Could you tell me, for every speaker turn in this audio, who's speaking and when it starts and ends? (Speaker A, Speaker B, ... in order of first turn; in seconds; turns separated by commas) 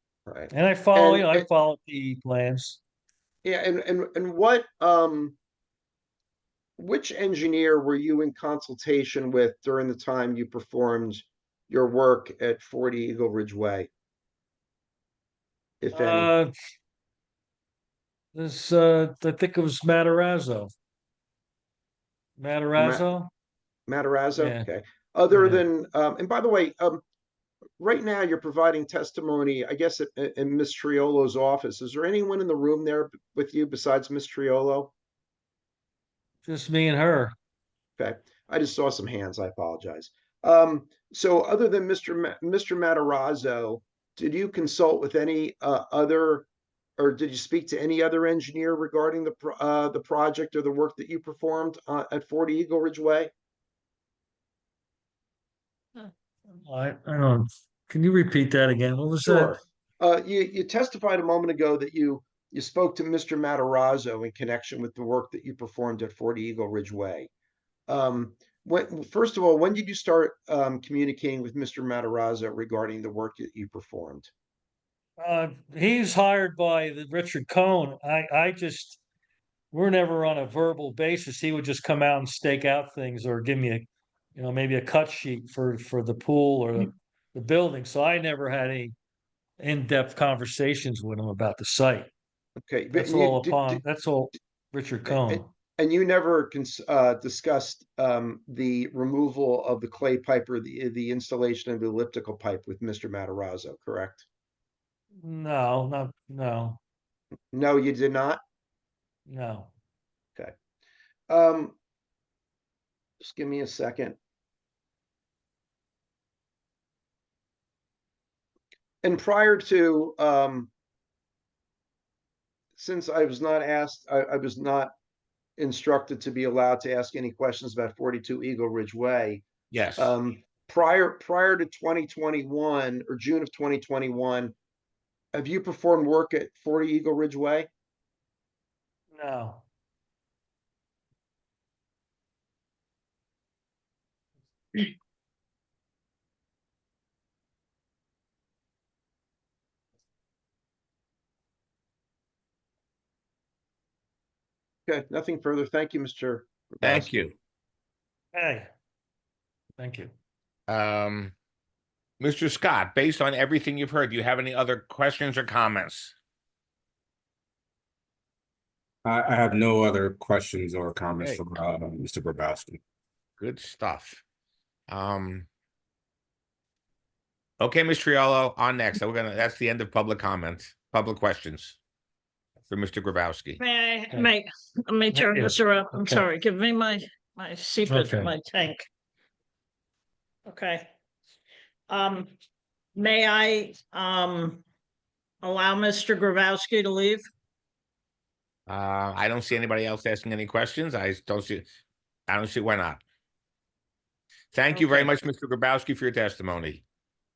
Speaker A: 0.3-1.5, Speaker B: 0.5-2.8, Speaker A: 3.4-5.4, Speaker A: 6.8-13.9, Speaker A: 15.8-16.3, Speaker B: 15.9-16.5, Speaker B: 18.3-20.7, Speaker B: 22.4-23.3, Speaker A: 22.8-23.1, Speaker A: 23.9-27.0, Speaker B: 24.4-24.7, Speaker B: 25.3-25.6, Speaker A: 27.8-34.9, Speaker B: 36.5-37.3, Speaker A: 38.0-53.3, Speaker B: 56.6-59.6, Speaker A: 59.2-67.3, Speaker A: 67.9-74.3, Speaker B: 75.2-79.0, Speaker B: 79.7-89.0, Speaker B: 89.6-92.1, Speaker A: 92.6-93.8, Speaker B: 92.9-95.5, Speaker A: 95.1-104.3, Speaker B: 105.2-106.8, Speaker A: 107.5-108.4, Speaker B: 109.3-109.7, Speaker A: 111.3-111.8, Speaker A: 113.2-114.2, Speaker A: 119.0-120.7, Speaker A: 122.8-124.9, Speaker A: 125.6-134.6, Speaker C: 129.7-130.1, Speaker A: 135.3-137.7, Speaker B: 139.1-139.6, Speaker A: 154.9-157.1, Speaker C: 156.8-157.3, Speaker B: 158.3-158.7, Speaker B: 159.8-160.1, Speaker C: 160.7-161.3, Speaker C: 162.2-166.1, Speaker D: 169.1-172.8, Speaker C: 173.4-174.2, Speaker C: 174.9-175.5, Speaker C: 177.6-181.8, Speaker C: 182.7-183.6, Speaker E: 183.6-188.8, Speaker B: 185.1-186.2, Speaker B: 187.9-188.3, Speaker E: 190.5-190.9, Speaker E: 191.9-192.3, Speaker E: 192.9-194.6, Speaker E: 195.4-197.2, Speaker C: 198.7-201.7, Speaker C: 202.3-203.0, Speaker C: 204.5-206.8, Speaker E: 204.7-205.1